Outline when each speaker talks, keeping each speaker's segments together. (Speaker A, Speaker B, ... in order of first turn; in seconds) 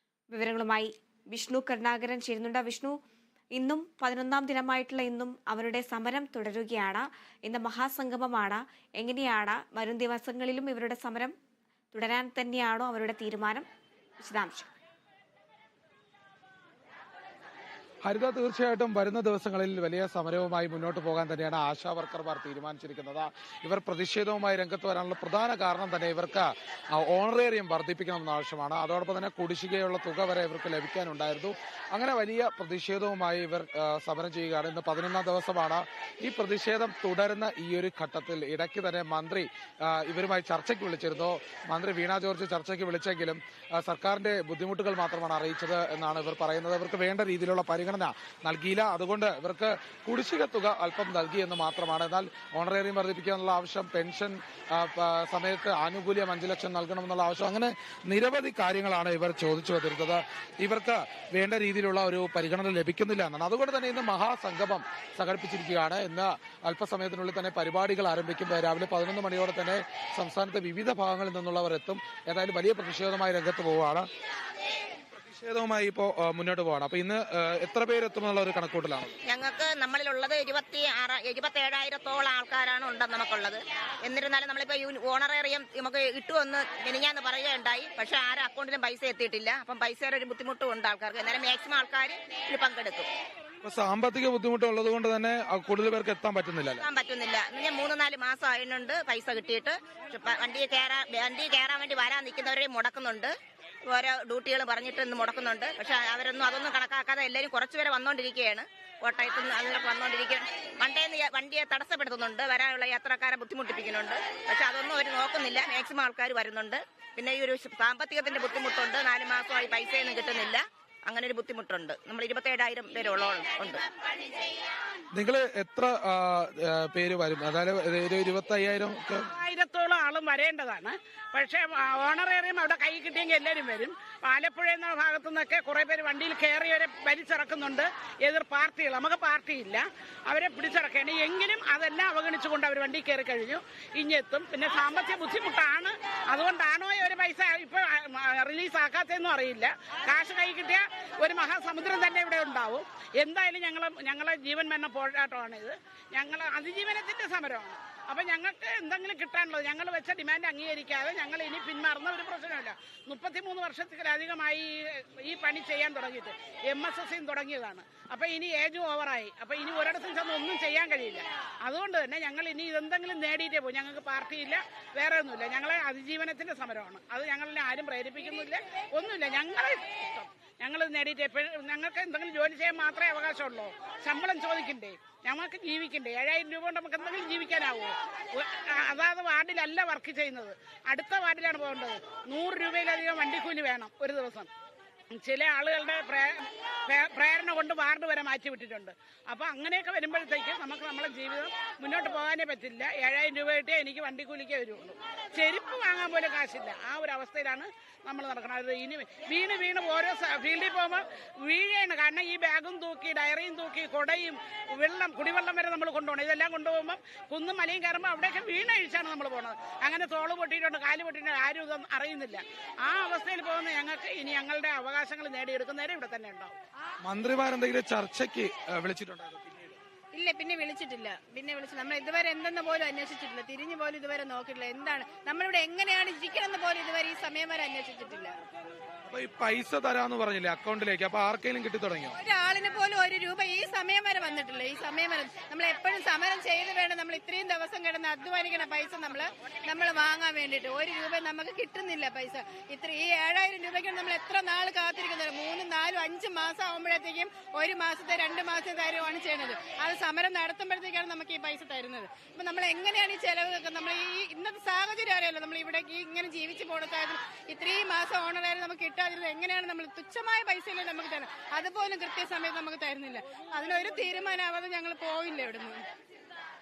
Speaker A: 0.3-3.0, 3.6-11.3, 11.9-13.7, 14.2-14.7
Speaker B: 18.0-74.1, 75.1-79.2, 93.6-96.8, 125.1-129.3, 227.0-229.8, 239.1-242.2
Speaker C: 79.3-93.1, 96.8-103.3, 103.8-123.8
Speaker D: 129.3-194.5, 195.1-226.6
Speaker E: 230.1-238.4, 242.2-275.8